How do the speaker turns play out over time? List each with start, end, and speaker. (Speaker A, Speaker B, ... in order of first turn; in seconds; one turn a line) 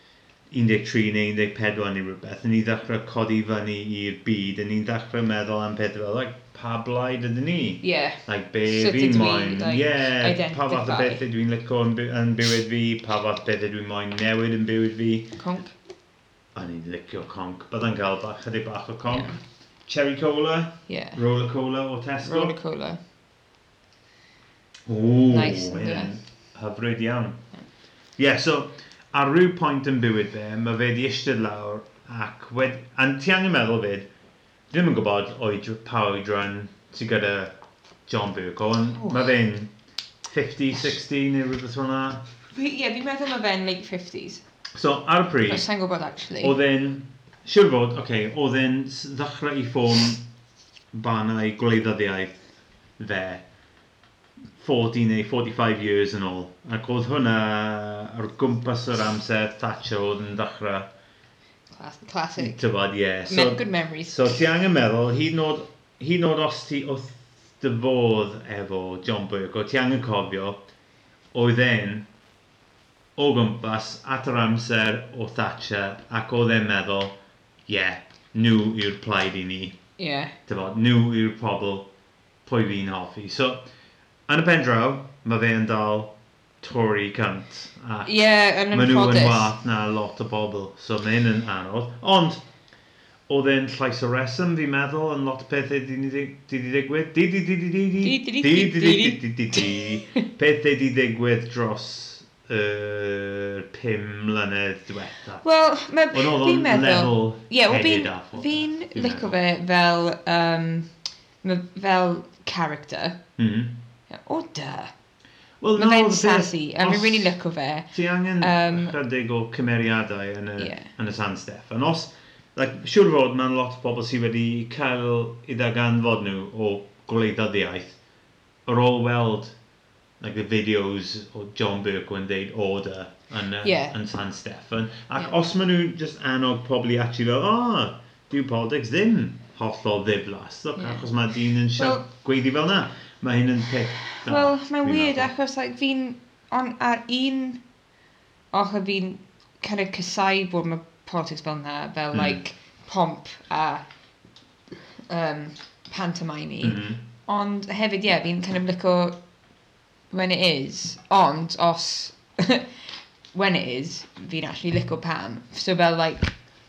Speaker A: 0.5-15.4
Speaker B: 7.8-11.2
Speaker B: 15.4-15.7
Speaker A: 16.6-22.6
Speaker B: 19.1-19.4
Speaker B: 20.9-21.2
Speaker B: 22.2-23.0
Speaker A: 24.9-27.4
Speaker B: 25.3-26.1
Speaker A: 28.2-34.1
Speaker A: 34.7-37.5
Speaker A: 38.1-39.7
Speaker B: 39.0-39.3
Speaker A: 40.3-42.2
Speaker B: 42.5-44.4
Speaker A: 44.8-45.6
Speaker B: 45.5-46.5
Speaker A: 46.4-50.2
Speaker A: 50.9-52.4
Speaker A: 53.0-53.5
Speaker A: 54.6-60.9
Speaker B: 61.7-62.6
Speaker A: 62.4-70.6
Speaker B: 63.3-64.2
Speaker A: 71.3-72.1
Speaker A: 73.2-77.2
Speaker A: 77.7-79.8
Speaker B: 80.0-80.3
Speaker A: 80.5-81.9
Speaker A: 82.5-83.7
Speaker A: 84.3-88.1
Speaker B: 88.0-89.5
Speaker A: 88.7-92.4
Speaker A: 93.3-105.5
Speaker B: 98.0-100.0
Speaker B: 105.4-110.9
Speaker A: 106.1-109.3
Speaker B: 111.4-113.2
Speaker A: 113.4-113.8
Speaker B: 114.1-114.9
Speaker A: 115.6-117.4
Speaker B: 115.8-119.0
Speaker A: 117.9-128.0
Speaker B: 120.6-120.9
Speaker A: 128.7-129.6
Speaker A: 130.2-145.3
Speaker B: 133.6-133.9
Speaker B: 140.8-141.1
Speaker B: 141.8-142.0
Speaker B: 144.2-147.6
Speaker B: 148.5-153.8
Speaker A: 152.1-152.4
Speaker B: 155.1-159.2
Speaker A: 156.6-157.0
Speaker B: 160.1-162.7
Speaker B: 163.3-166.4